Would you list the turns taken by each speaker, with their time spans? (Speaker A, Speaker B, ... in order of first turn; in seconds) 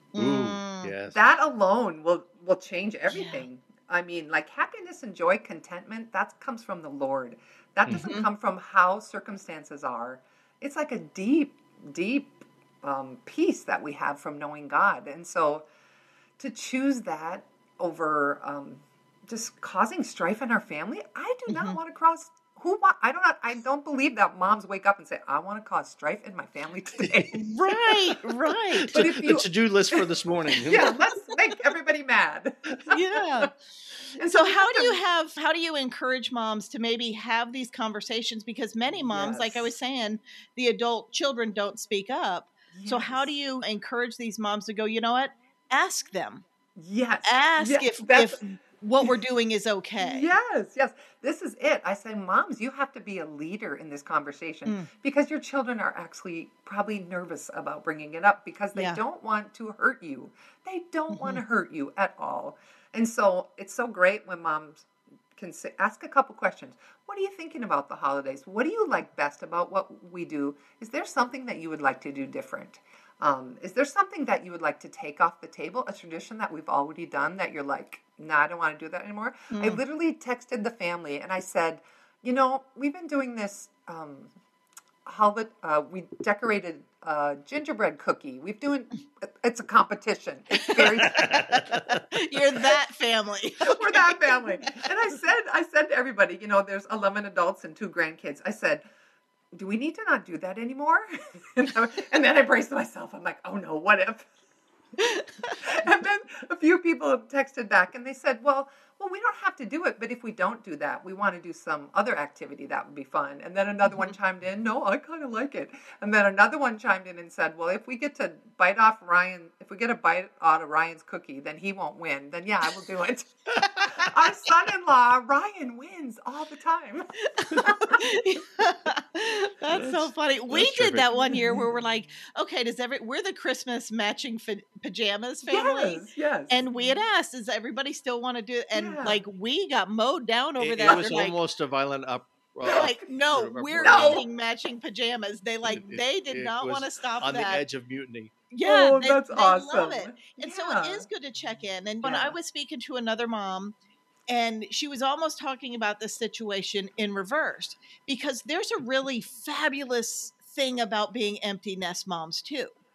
Speaker A: 0.1-0.9, 3.1-3.4, 7.9-8.3, 21.5-21.8, 27.3-28.9, 32.9-33.5, 34.2-46.4, 47.2-50.3, 58.7-59.0, 61.1-61.4, 79.5-79.8, 90.6-94.8, 105.0-105.6, 113.9-114.1, 127.3-141.4, 142.7-147.6, 148.5-153.8, 154.3-162.7
Speaker B: 0.1-1.2, 28.4-30.9, 91.1-92.0, 130.5-131.6, 140.6-144.2, 145.7-148.3, 152.0-152.3
Speaker C: 1.1-15.6, 16.4-27.4, 28.9-33.5, 34.1-35.0, 39.0-39.7, 42.7-43.3, 46.8-48.4, 50.0-84.3, 85.0-91.3, 93.6-98.8, 99.5-104.2, 105.5-128.1, 129.7-130.1, 135.5-137.0, 138.7-139.2, 140.8-141.2, 143.8-144.2, 148.6-151.1